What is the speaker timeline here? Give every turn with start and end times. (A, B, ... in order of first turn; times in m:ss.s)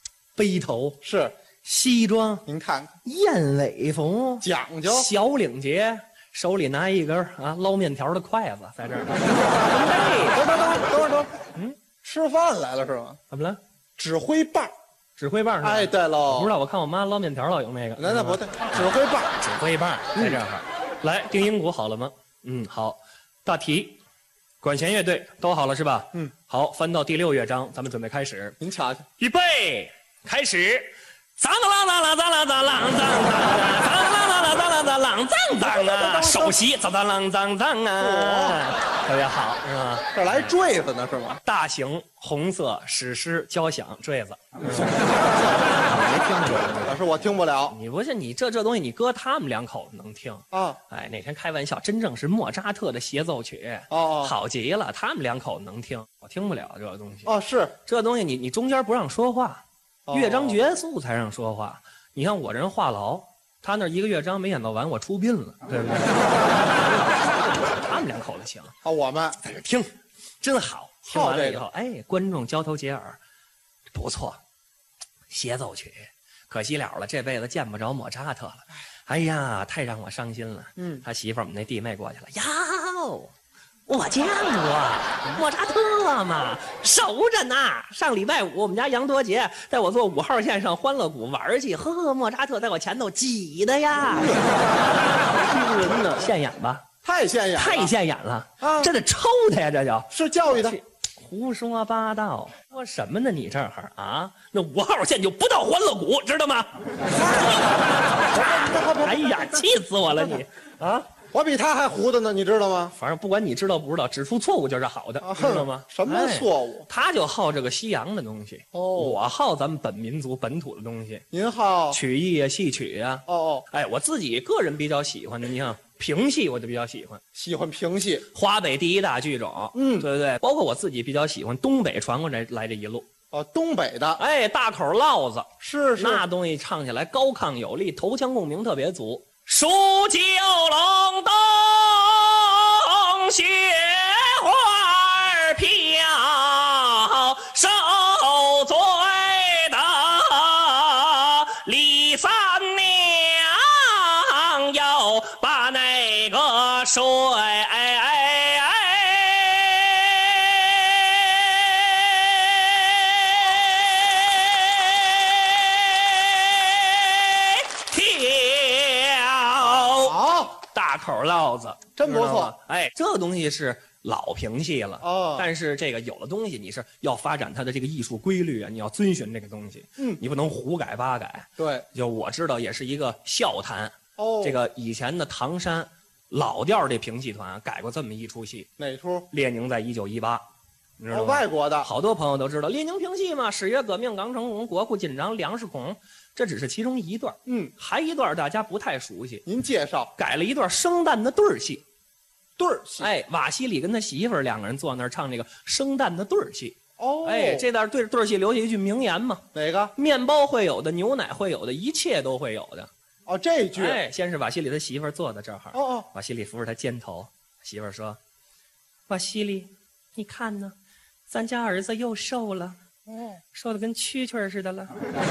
0:00.4-0:01.0 A
0:01.0-0:01.3 B
0:01.6-0:02.4 A
0:02.4-0:02.9 B
0:03.0-0:10.9 A
0:04.4-0:05.1 B
0:10.3-0:11.3 B
0:12.0-0:13.2 B
0:13.3-0:13.6 A
0:14.0-0:14.7 B
0:15.2-0:24.0 A
0:15.6-0:16.5 B
0:18.0-0:19.4 B
0:20.1-0:20.4 B
0:24.6-0:28.6 A
0:28.6-0:29.0 B
0:29.2-0:40.5 A
0:35.6-0:36.6 B
0:38.0-0:38.7 B
0:40.1-0:41.4 B
0:41.4-0:45.0 A
0:44.6-0:46.0 B
0:45.8-0:57.3 A
0:46.8-0:47.8 B
0:50.5-0:50.8 B
0:53.9-0:54.3 B
0:57.2-0:57.7 B
0:57.8-1:08.7 A
1:00.1-1:00.6 B
1:08.8-1:09.4 B
1:09.4-1:09.9 A
1:10.4-1:13.2 A
1:11.1-1:11.6 B
1:13.9-1:14.4 A
1:15.3-1:23.3 A
1:20.8-1:21.0 B
1:23.9-1:34.4 A
1:34.0-1:34.6 B
1:35.1-1:36.3 B
1:36.2-1:36.9 A
1:37.0-1:37.9 B
1:37.6-1:47.8 A
1:38.6-1:38.9 B
1:40.1-1:40.8 B
1:47.1-1:47.7 B
1:48.3-1:50.4 B
1:49.0-1:51.1 A
1:51.3-1:52.9 B
1:52.9-2:01.2 A
1:55.2-1:56.9 B
1:58.7-1:59.2 B
2:01.3-2:02.0 B
2:01.9-2:07.2 A
2:03.3-2:03.6 B
2:07.3-2:08.2 B
2:08.3-2:13.0 A
2:09.7-2:10.1 B
2:13.3-2:14.2 B
2:14.2-3:08.7 A
2:15.6-2:16.2 B
2:49.7-2:50.5 B
2:52.0-2:52.5 B
2:55.0-2:55.5 B
3:01.6-3:01.8 B
3:04.2-3:04.6 B
3:08.8-3:09.3 B
3:09.3-3:10.4 A
3:11.0-3:19.4 A
3:11.1-3:11.9 B
3:17.4-3:17.7 B
3:19.4-3:20.1 B
3:20.2-3:21.8 A
3:22.6-3:23.1 B
3:23.0-3:32.9 A
3:27.0-3:27.6 B
3:29.5-3:29.9 B
3:33.3-3:34.0 B
3:33.7-3:38.2 A
3:35.7-3:36.1 B
3:39.1-3:40.7 A
3:41.3-3:42.8 A
3:43.1-3:43.4 B
3:43.5-3:45.0 A